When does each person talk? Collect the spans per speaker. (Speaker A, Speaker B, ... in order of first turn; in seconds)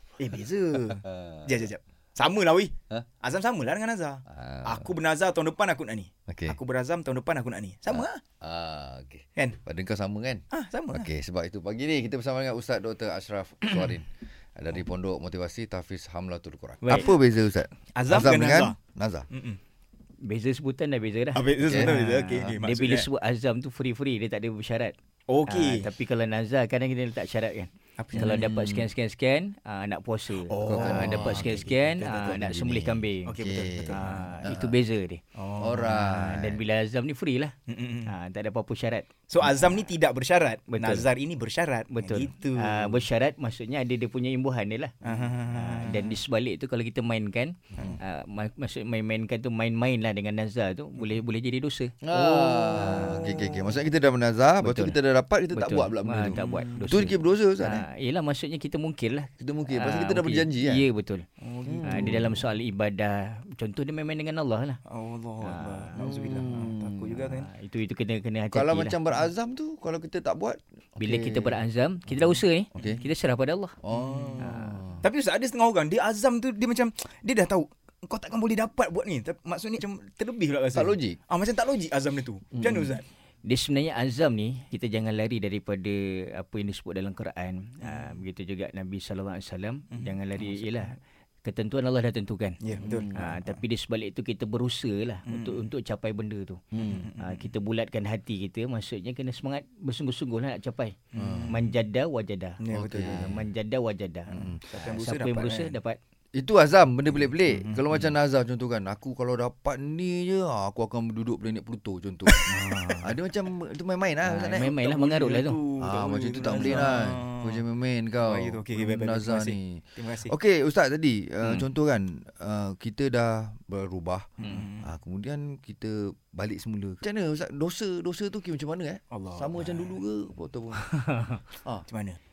Speaker A: 0.2-8.2, 10.5-11.1, 17.9-18.8, 19.3-19.6, 21.3-23.1, 25.3-25.9, 28.0-28.4, 30.3-32.5, 33.3-34.4, 35.4-36.1, 37.7-38.1, 39.3-43.1, 45.0-46.2, 52.1-53.8, 61.4-62.4, 64.9-67.5, 73.9-74.5, 75.0-83.0, 87.8-88.2, 89.9-91.0, 92.6-93.6, 95.3-95.7, 96.8-97.5, 101.1-101.8, 102.6-103.4, 104.7-105.8, 107.5-108.1, 114.5-117.6, 118.2-120.3, 124.4-124.9, 129.1-130.0, 131.9-132.2
Speaker B: 1.0-1.7, 4.3-4.9, 6.3-6.6, 7.9-19.3, 21.7-22.6, 28.1-28.9, 30.6-34.8, 35.6-36.6, 52.0-57.8, 59.4-60.9, 61.6-62.4, 66.0-67.2, 68.5-71.6, 72.7-73.0, 73.8-75.0, 80.7-81.2, 92.8-93.2, 96.7-97.1, 101.2-101.6, 102.7-103.5, 104.3-104.6, 106.3-114.7, 115.8-130.9
Speaker C: 16.8-17.2, 20.2-24.9, 25.5-33.3, 33.9-35.2, 35.9-37.5, 38.1-39.9, 40.7-41.1, 41.9-45.0, 45.5-53.4, 54.6-55.0, 55.5-61.3, 61.8-64.8, 65.4-66.0, 67.3-69.0, 71.0-73.8, 74.4-74.9, 82.6-82.9, 83.5-92.6, 93.2-96.6, 97.2-101.0, 101.5-106.0, 112.5-113.1, 114.2-115.6, 116.5-116.9, 121.4-121.7, 124.4-124.7, 130.8-131.4